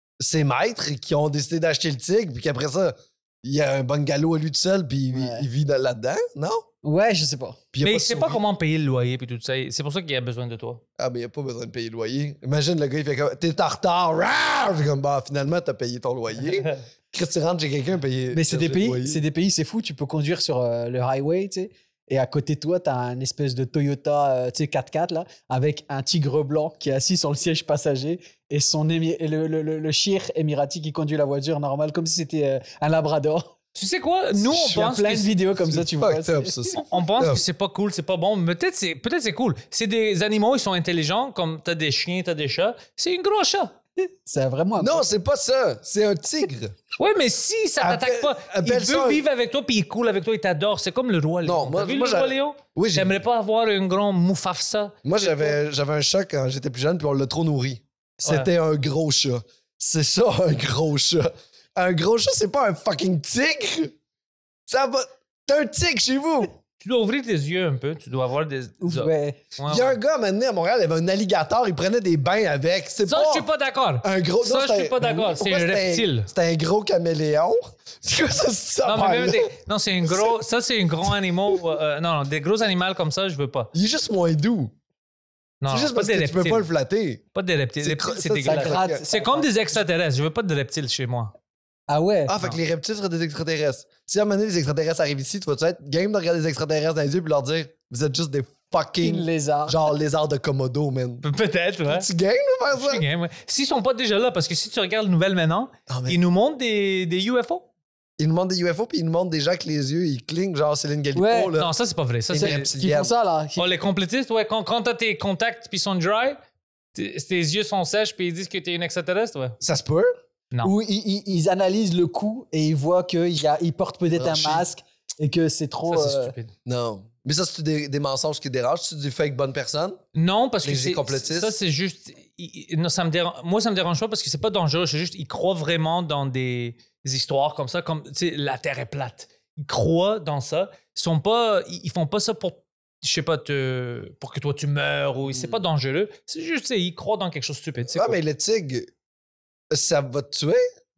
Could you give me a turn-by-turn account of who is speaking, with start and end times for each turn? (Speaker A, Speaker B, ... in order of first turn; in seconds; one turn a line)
Speaker A: 0.2-6.7
Speaker B: 5.1-5.5
Speaker B: 6.8-7.6
Speaker A: 7.7-8.4
Speaker C: 7.8-10.8
Speaker A: 11.0-19.2
Speaker B: 18.3-33.5
Speaker C: 33.8-35.3
Speaker B: 34.4-36.7
Speaker A: 35.7-37.4
Speaker C: 36.7-43.8
Speaker B: 44.0-45.1
Speaker A: 44.8-46.8
Speaker C: 47.0-55.5
Speaker A: 47.8-49.2
Speaker A: 51.4-53.2
Speaker A: 55.0-63.9
Speaker C: 58.2-58.5
Speaker A: 64.7-66.5
Speaker C: 66.8-70.0
Speaker B: 68.8-69.4
Speaker A: 69.7-73.5
Speaker C: 73.1-76.3
Speaker A: 74.0-79.5
Speaker C: 78.8-83.7
Speaker A: 83.7-84.7
Speaker C: 85.6-86.7
Speaker A: 85.7-87.2
Speaker C: 87.3-91.3
Speaker A: 87.8-89.0
Speaker B: 88.4-89.8
Speaker B: 91.9-92.3
Speaker A: 92.3-101.2
Speaker B: 99.0-99.8
Speaker C: 101.2-102.1
Speaker A: 101.9-103.0
Speaker C: 102.7-107.7
Speaker A: 105.9-106.2
Speaker A: 108.2-111.7
Speaker B: 111.2-111.5
Speaker C: 111.5-112.7
Speaker A: 112.3-113.1
Speaker B: 112.3-113.7
Speaker C: 113.6-116.4
Speaker C: 117.0-119.6
Speaker A: 119.6-120.1
Speaker B: 120.6-126.4
Speaker A: 124.2-124.6
Speaker C: 125.9-126.5
Speaker A: 126.7-130.0
Speaker C: 130.2-148.2
Speaker A: 130.6-131.6
Speaker A: 147.9-148.9
Speaker A: 149.7-150.6